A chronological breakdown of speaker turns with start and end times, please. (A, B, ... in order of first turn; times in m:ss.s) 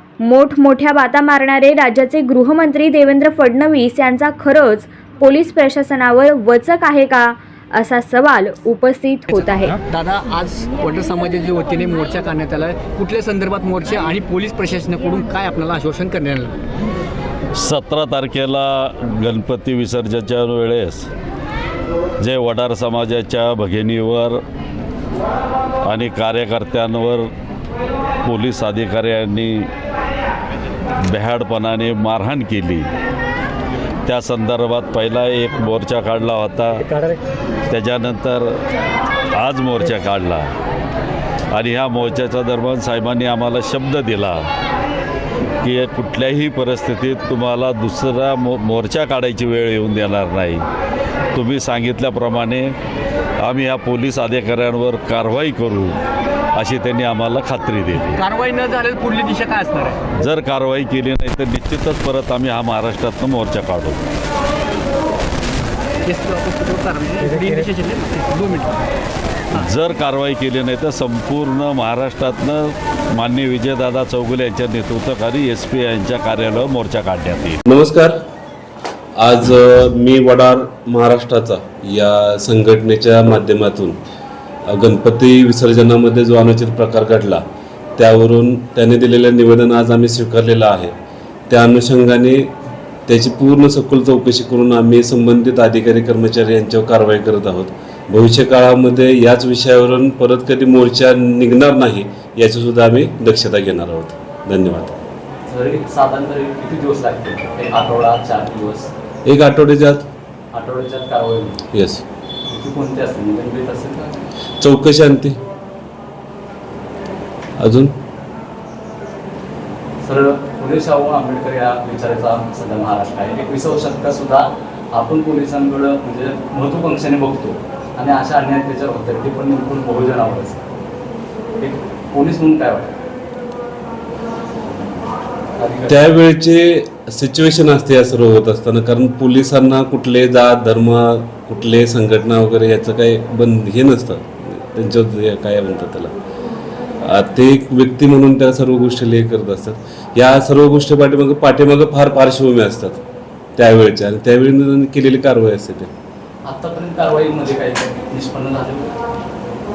0:00.2-0:09.8 A
0:09.3-0:16.6 B
0:17.6-0:21.1 C
0:22.2-0:24.4 C
0:25.8-0:27.3 C
0:28.2-0:29.7 C
0:31.1-0:32.9 C
0:34.0-0:36.9 C
0:37.7-0:38.5 C
0:39.3-0:40.5 C
0:41.5-0:44.5 C
0:45.6-0:50.6 C
0:51.3-0:52.7 C
0:53.4-0:56.0 C
0:56.5-0:58.2 C
0:58.0-1:00.1 B
1:00.2-1:04.0 C
1:06.0-1:08.8 B
1:09.5-1:17.6 C
1:17.6-1:18.1 D
1:19.2-1:24.0 D
1:24.7-1:27.4 D
1:28.0-1:30.9 D
1:31.5-1:32.5 D
1:33.1-1:45.0 D
1:45.5-1:48.9 E
1:49.2-1:50.0 D
1:50.5-1:51.6 E
1:51.7-1:52.0 D
1:52.5-1:54.2 E
1:54.6-1:55.4 D
1:57.6-1:57.9 D
2:00.0-2:10.6 E
2:11.6-2:12.9 E
2:15.6-2:16.0 E
2:15.9-2:26.1 D
2:27.0-2:33.0 D
2:33.6-2:35.9 D
2:36.4-2:38.9 E